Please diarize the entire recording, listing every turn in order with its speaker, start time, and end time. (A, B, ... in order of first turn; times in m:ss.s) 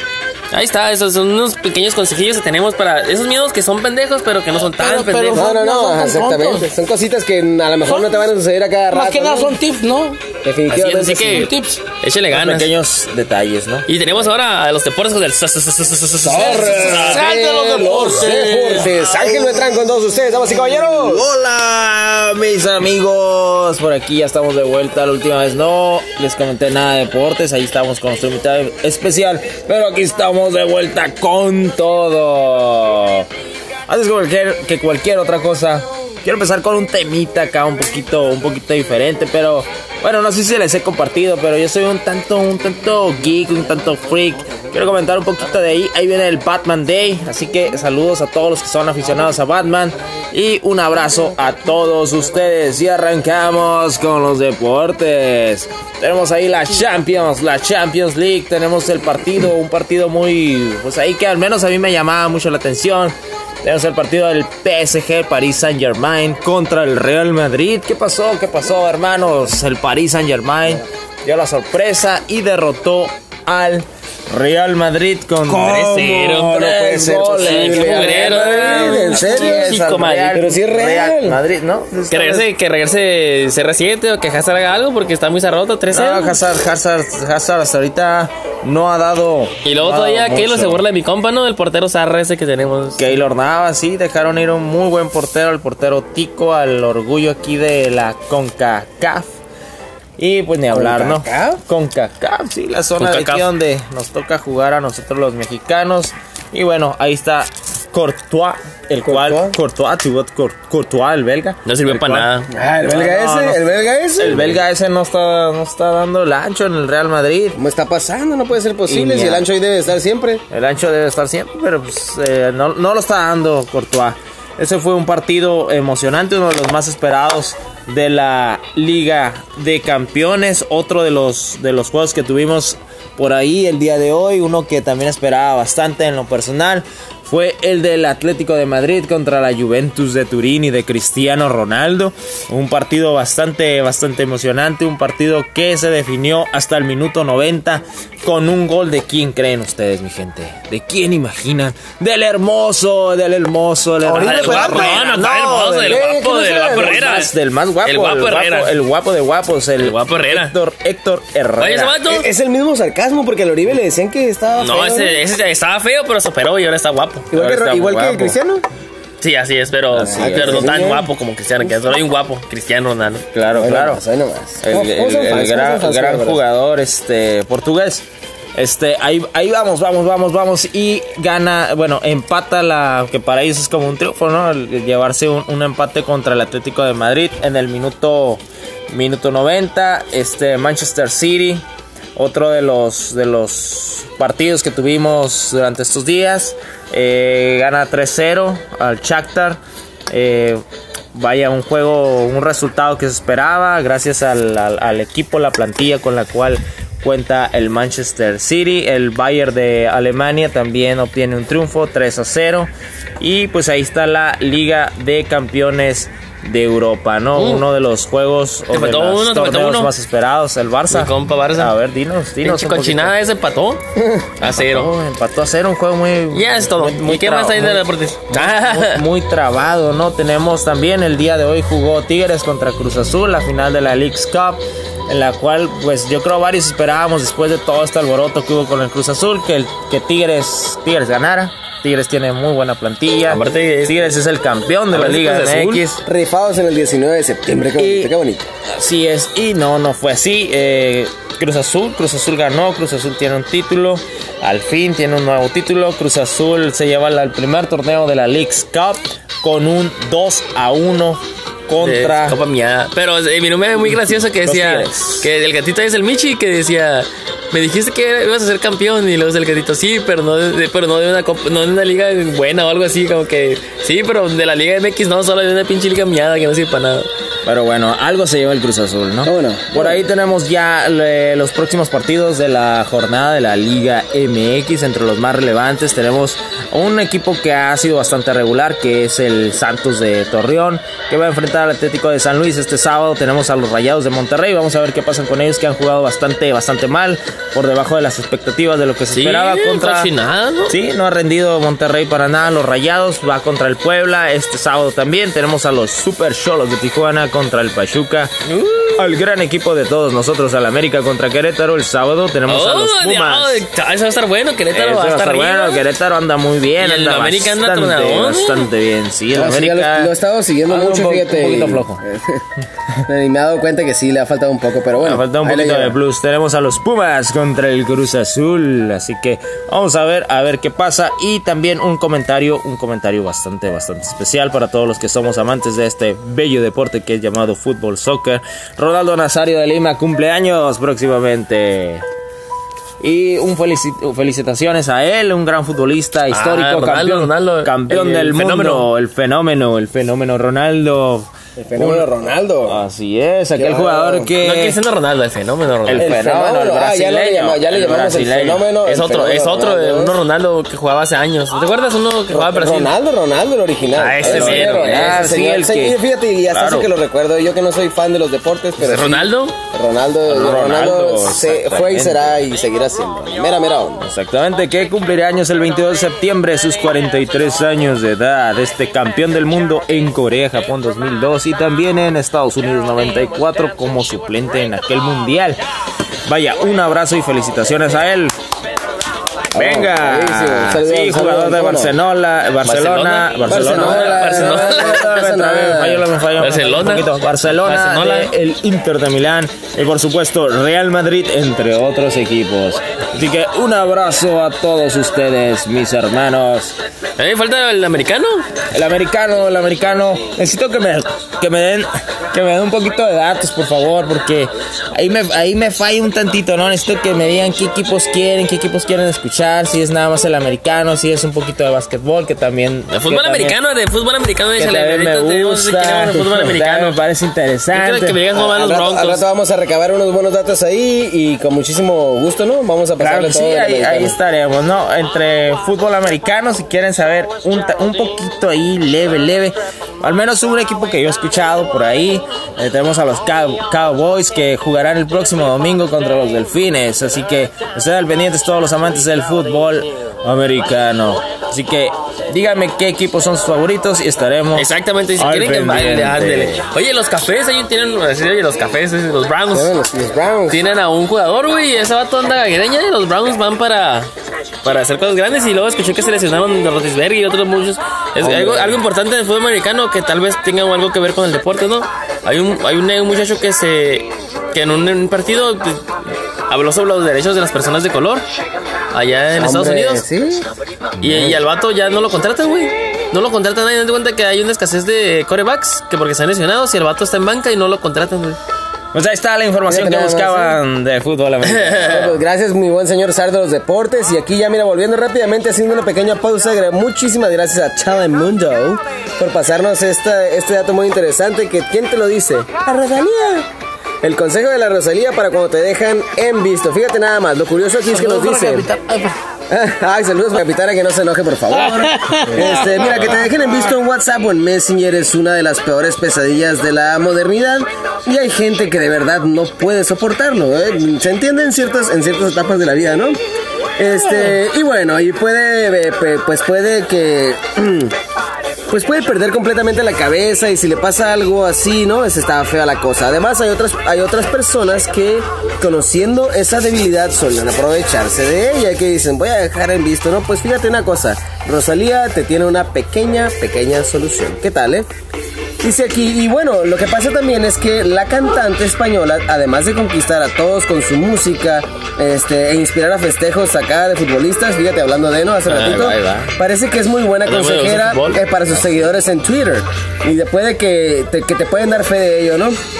0:00.5-0:05.5 A
0:04.8-0:06.7 B
0:05.3-0:09.6 C
0:07.8-0:08.2 B
0:08.9-0:10.2 B
0:10.4-0:11.5 C
0:10.7-0:12.7 A
0:11.3-0:11.8 B
0:12.3-0:13.9 D
0:13.9-0:17.2 A
0:16.2-0:21.2 C
0:16.3-0:18.9 B
0:18.6-0:19.7 D
0:20.5-0:33.3 D
0:33.9-1:22.5 D
1:15.5-1:16.6 A
1:16.5-1:21.4 C
1:17.3-1:19.9 A
1:22.1-1:26.4 A
1:25.9-1:30.8 D
1:29.6-1:33.2 A
1:33.0-1:39.3 D
1:40.2-1:52.3 D
1:40.7-1:41.6 C
1:43.0-1:43.5 A
1:49.0-1:49.6 C
1:51.6-1:52.5 A
1:52.5-1:54.6 C
1:52.8-1:57.6 D
1:57.6-2:00.4 C
1:58.9-1:59.4 D
2:00.5-2:42.0 D
2:34.0-2:35.0 C
2:34.2-2:37.3 A
2:35.8-2:37.2 C
2:37.8-2:38.7 A
2:39.8-2:40.5 A
2:41.6-2:42.3 A
2:42.0-2:45.2 C
2:44.6-2:47.3 A
2:47.3-2:48.6 C
2:47.3-2:48.3 D
2:49.2-2:53.3 A
2:49.9-2:50.9 D
2:50.0-2:51.1 C
2:53.3-2:54.0 D
2:53.5-2:56.4 C
2:54.6-2:58.0 D
2:58.6-3:11.6 D
3:12.2-3:20.6 D
3:21.1-3:43.1 D
3:37.3-3:37.6 A
3:38.7-3:39.9 A
3:40.9-3:41.7 A
3:42.4-3:43.8 A
3:44.0-3:44.2 C
3:44.4-3:44.9 A
3:44.4-4:06.0 D
3:46.3-3:49.0 A
4:03.3-4:04.2 A
4:04.9-4:05.8 A
4:06.0-4:08.5 C
4:07.8-4:08.1 D
4:08.7-4:22.4 D
4:21.8-4:37.1 A
4:24.4-4:25.3 D
4:37.4-5:00.1 D
4:39.2-4:40.0 C
4:59.1-5:00.8 A
5:00.7-5:08.3 D
5:08.4-5:09.1 A
5:09.0-5:13.6 D
5:12.5-5:15.8 A
5:14.7-5:20.1 D
5:16.8-5:18.7 A
5:19.3-5:22.4 C
5:20.7-5:22.0 D
5:23.0-5:26.0 C
5:25.0-5:42.0 D
5:43.0-5:52.1 D
5:46.3-5:48.9 A
5:51.6-5:52.8 C
5:52.6-5:54.8 D
5:53.5-5:54.3 C
5:54.4-5:56.1 A
5:55.8-5:58.6 D
5:55.9-6:00.2 C
5:58.8-6:02.9 A
6:02.3-6:14.1 C
6:04.0-6:05.2 A
6:04.2-6:06.0 D
6:06.5-6:06.9 D
6:08.8-6:09.5 A
6:10.3-6:12.4 D
6:14.0-6:25.6 D
6:26.3-6:28.3 D
6:29.5-6:31.9 C
6:29.5-6:46.7 D
6:32.6-6:35.1 A
6:33.5-6:36.0 C
6:36.4-6:38.3 A
6:47.2-6:48.4 A
6:48.7-7:03.6 D
7:02.9-7:07.0 A
7:04.6-7:08.2 D
7:07.7-7:09.2 A
7:08.3-7:14.2 C
7:13.0-7:36.6 D
7:34.5-7:39.7 A
7:39.5-7:40.6 C
7:40.5-7:44.1 A
7:44.6-7:55.9 A
7:48.2-7:48.8 C
7:56.5-7:58.2 A
7:58.9-8:00.0 A
7:59.3-8:00.5 C
8:01.0-8:01.4 D
8:01.0-8:08.4 A
8:08.9-8:12.1 D
8:09.7-8:10.6 C
8:11.4-8:12.1 A
8:11.9-8:23.5 C
8:24.0-8:28.7 C
8:27.9-8:29.2 B
8:29.5-8:43.2 C
8:31.5-8:32.8 B
8:43.8-8:47.9 C
8:48.7-9:04.9 C
9:05.6-9:22.6 C
9:15.5-9:16.3 A
9:17.2-9:18.6 A